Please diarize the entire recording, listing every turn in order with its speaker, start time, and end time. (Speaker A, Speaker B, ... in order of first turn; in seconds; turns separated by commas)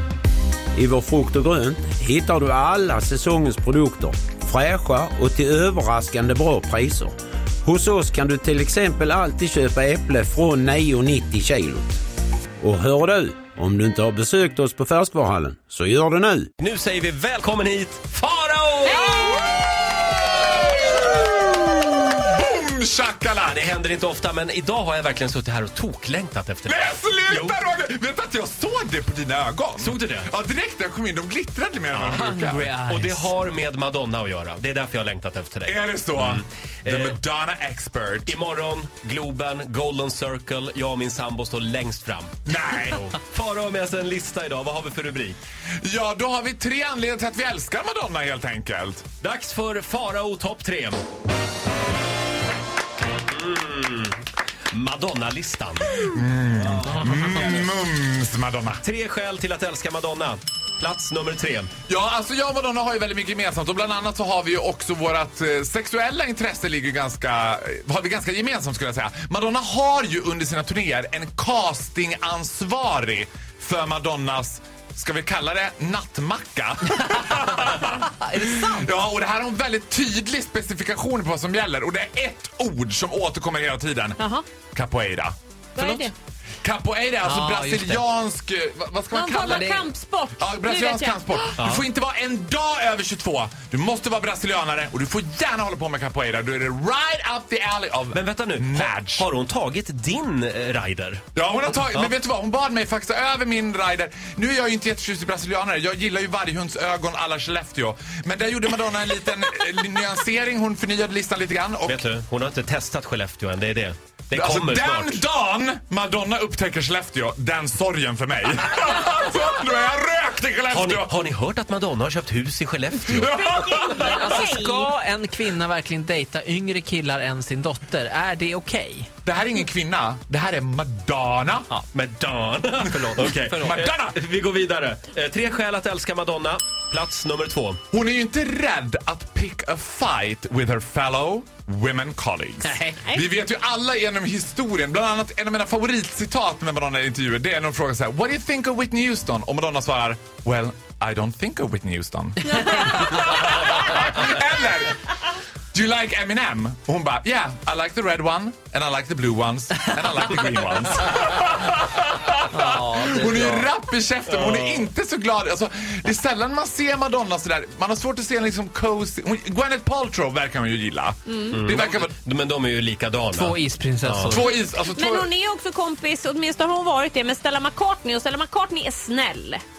Speaker A: 0.7-12.0, Speaker A: 12.6-16.5, Speaker B: 16.6-19.4, Speaker C: 18.9-19.2, Speaker D: 19.2-19.7, Speaker D: 20.5-23.7, Speaker B: 23.4-27.6, Speaker D: 26.6-32.7, Speaker B: 29.8-30.3, Speaker B: 31.9-32.3, Speaker E: 32.1-33.3, Speaker B: 32.8-37.2, Speaker D: 35.6-38.3, Speaker B: 38.2-45.4, Speaker D: 42.5-43.0, Speaker D: 45.8-49.0, Speaker B: 49.2-51.0, Speaker B: 53.3-56.0, Speaker D: 56.0-58.8, Speaker B: 56.6-57.6, Speaker B: 58.8-61.7, Speaker D: 61.9-86.0, Speaker E: 78.2-78.8, Speaker C: 84.2-84.4, Speaker E: 85.8-86.1, Speaker C: 85.8-86.1, Speaker D: 86.6-99.3, Speaker E: 87.2-88.0, Speaker C: 89.1-91.5, Speaker E: 89.4-89.8, Speaker B: 91.6-91.9, Speaker B: 98.1-102.1, Speaker D: 101.3-112.0, Speaker B: 111.8-115.2, Speaker D: 114.3-121.1, Speaker B: 120.7-123.3, Speaker D: 123.1-124.5, Speaker E: 123.8-129.1, Speaker C: 124.2-124.9, Speaker D: 129.2-131.7, Speaker B: 131.9-137.8, Speaker D: 133.2-134.2, Speaker D: 137.9-155.0, Speaker E: 142.6-143.1, Speaker D: 155.7-172.1, Speaker E: 162.6-163.1, Speaker B: 162.8-163.6, Speaker B: 164.3-164.9, Speaker B: 171.5-174.4, Speaker E: 173.3-174.5, Speaker D: 174.3-175.3, Speaker C: 174.4-179.6